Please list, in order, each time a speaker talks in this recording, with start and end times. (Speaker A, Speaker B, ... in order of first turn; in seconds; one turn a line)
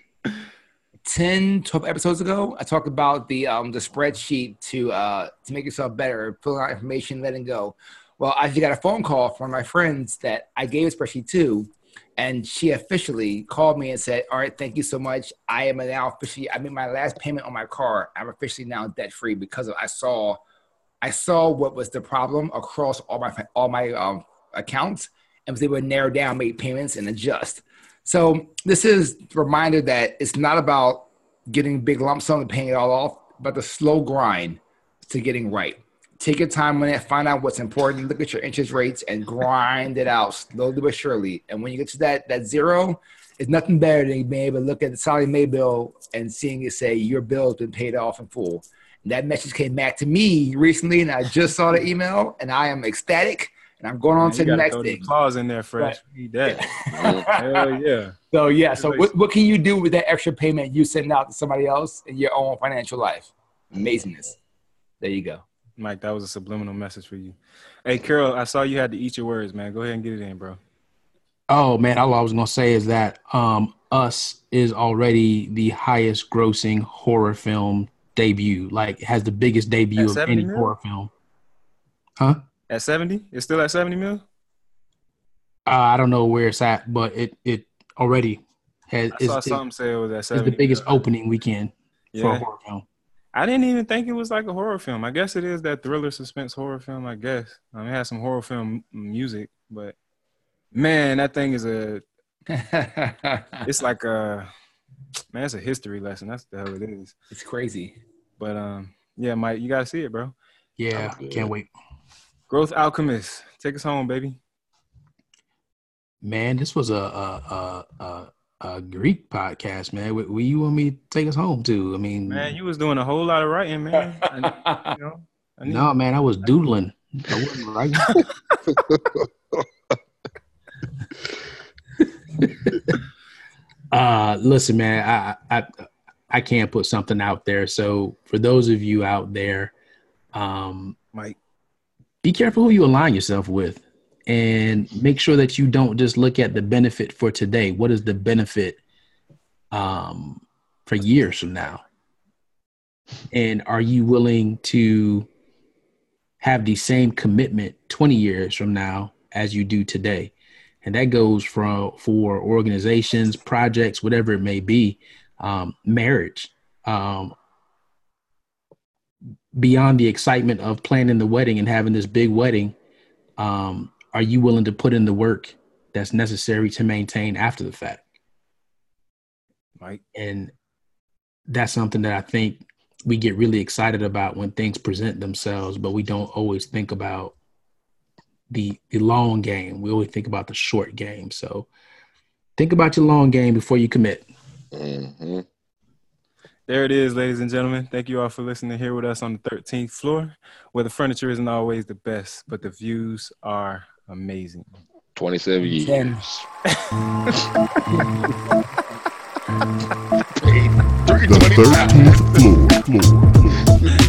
Speaker A: 1.1-20.4
Speaker A: 21.0-55.1
Speaker B: 54.2-56.7
Speaker A: 55.8-57.8
Speaker C: 56.9-57.3
Speaker B: 57.3-58.2
Speaker A: 58.3-64.4
Speaker B: 58.8-59.1
Speaker A: 65.0-65.5
Speaker B: 65.8-70.6
Speaker D: 71.5-81.1
Speaker B: 80.0-80.7
Speaker B: 82.7-84.2
Speaker D: 85.7-89.6
Speaker B: 89.1-91.0
Speaker D: 90.3-92.9
Speaker B: 92.1-92.5
Speaker B: 93.3-100.0
Speaker B: 100.7-102.0
Speaker A: 102.5-103.7
Speaker B: 103.7-104.5
Speaker B: 105.3-107.1
Speaker A: 107.3-108.0
Speaker B: 108.4-110.3
Speaker D: 110.8-111.7
Speaker C: 110.9-111.5
Speaker B: 112.5-114.4
Speaker D: 116.2-122.5
Speaker B: 122.3-125.9
Speaker A: 124.6-124.9
Speaker D: 125.7-128.2
Speaker B: 128.2-128.5
Speaker C: 128.8-129.6
Speaker D: 133.9-139.7
Speaker D: 140.3-141.0
Speaker D: 142.2-148.8
Speaker D: 149.7-151.8
Speaker D: 153.3-155.3
Speaker D: 156.4-167.3
Speaker D: 169.6-172.8
Speaker D: 173.4-178.0
Speaker D: 180.1-180.5
Speaker D: 181.5-187.3
Speaker D: 188.5-191.7
Speaker D: 192.6-194.3
Speaker C: 194.7-195.4
Speaker B: 196.7-204.7
Speaker C: 205.2-206.5
Speaker A: 205.8-206.2
Speaker C: 210.3-212.4
Speaker E: 211.1-213.8
Speaker A: 211.7-212.0